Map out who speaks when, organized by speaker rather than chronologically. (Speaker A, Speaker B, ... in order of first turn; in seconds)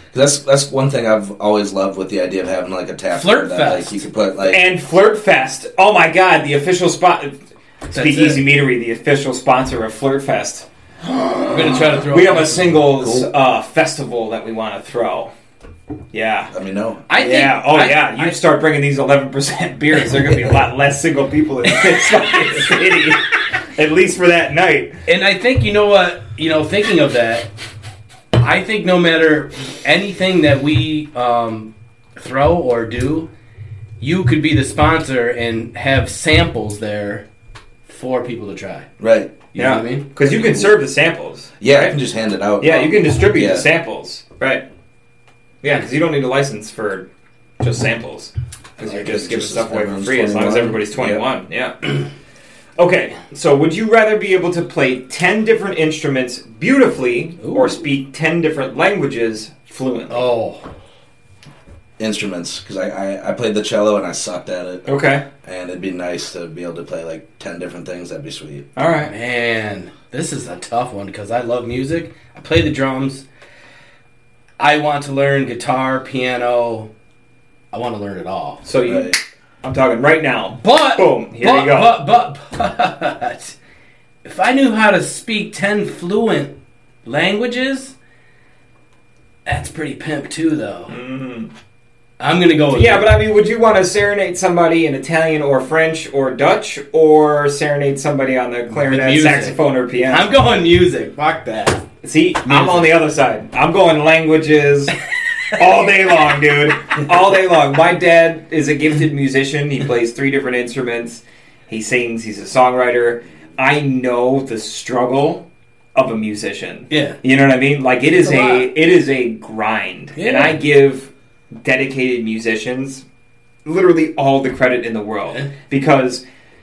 Speaker A: 0.1-4.6, 13.0-13.3, 16.5-17.1, 39.0-39.4, 40.2-40.7, 41.6-43.7, 48.8-51.2, 62.0-64.9, 65.4-68.6, 78.8-79.2
Speaker B: 3.1-4.0, 7.9-8.4, 11.5-12.8, 17.1-18.4, 25.1-27.5, 28.4-33.3, 34.0-37.2, 37.9-38.9, 39.5-40.1, 57.4-57.8, 60.1-60.7, 69.0-73.2, 74.6-76.9, 77.7-78.6, 80.6-83.5, 84.2-88.0, 89.5-91.0, 92.2-93.1, 98.7-101.9, 102.5-102.9, 116.9-117.2, 118.1-118.7, 120.1-120.6
Speaker C: 4.5-7.4, 7.9-15.3, 16.1-16.5, 17.1-25.0, 39.5-42.0, 42.6-44.6, 45.6-47.1, 47.6-52.0, 52.8-60.3, 64.9-65.2, 68.8-69.1, 78.6-82.0, 90.9-91.5, 92.7-100.3, 102.0-105.0, 105.5-123.0, 123.6-126.2